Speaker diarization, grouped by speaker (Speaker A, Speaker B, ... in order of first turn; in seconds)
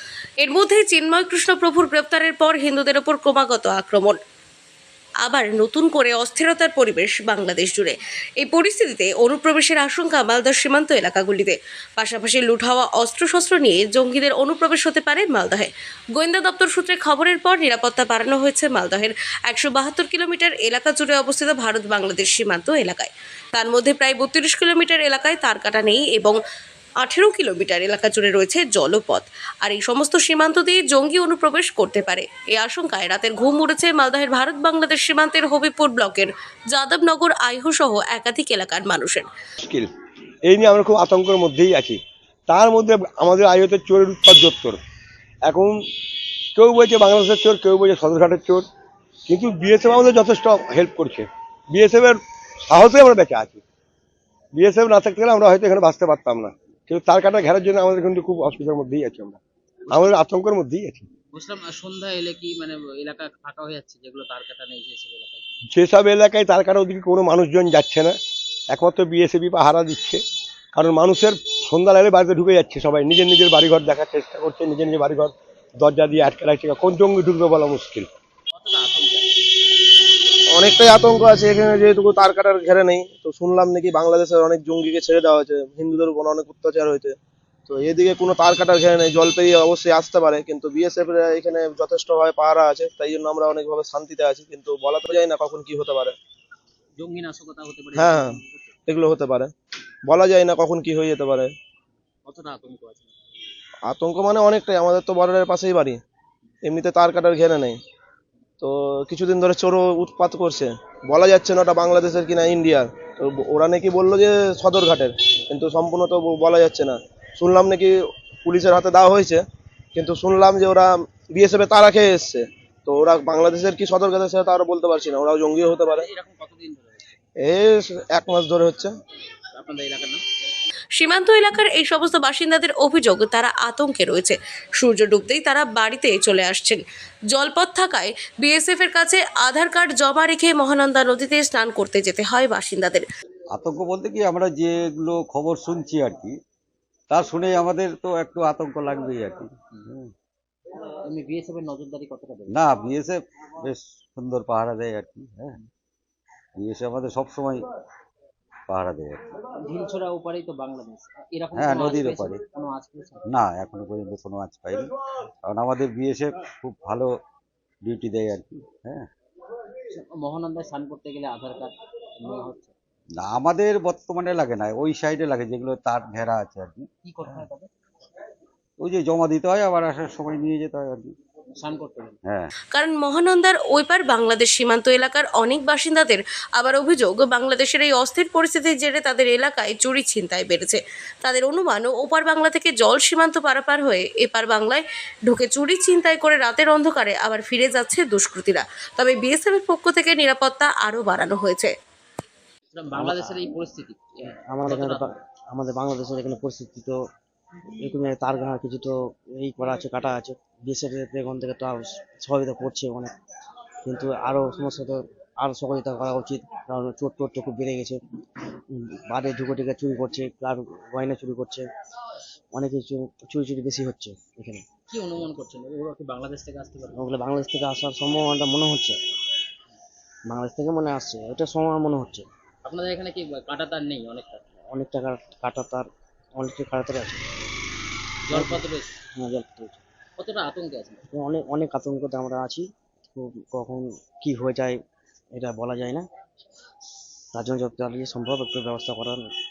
Speaker A: 0.4-4.2, 5.2-26.4, 27.0-39.3, 131.0-143.1, 182.7-201.7
Speaker B: 39.6-39.9, 40.5-44.8, 45.5-45.8, 46.5-48.6, 49.3-53.6, 54.6-59.4, 59.9-61.1, 65.7-68.2, 68.7-70.2, 70.7-78.1
Speaker C: 59.9-60.2, 61.3-65.4, 78.6-79.4, 97.0-98.7, 102.2-103.1, 125.9-127.1, 129.5-130.2, 151.0-152.6, 159.4-163.2, 169.9-172.7, 177.0-177.7, 181.6-182.2, 202.7-205.1, 224.9-227.0, 232.6-234.4, 238.3-238.9, 240.2-241.0
Speaker D: 80.5-96.1, 98.0-99.5, 100.1-101.5, 103.8-106.0, 106.6-107.8, 108.6-119.4, 119.9-126.1, 127.4-128.9
Speaker E: 143.5-146.3, 147.1-150.1, 152.5-155.6, 156.6-157.7, 158.7-159.2, 161.5-162.4, 163.2-164.9, 165.4-167.1, 167.8-169.1, 173.2-177.4, 178.8-181.1, 182.2-182.5
Speaker F: 202.9-203.4, 204.3-207.0, 207.8-213.1, 213.8-218.0, 218.7-221.7, 222.5-224.6, 226.9-229.0, 230.3-232.2, 234.7-235.9, 236.4-237.2, 238.3-238.6, 239.2-239.8, 241.1-244.8, 245.4-246.1, 247.3-249.2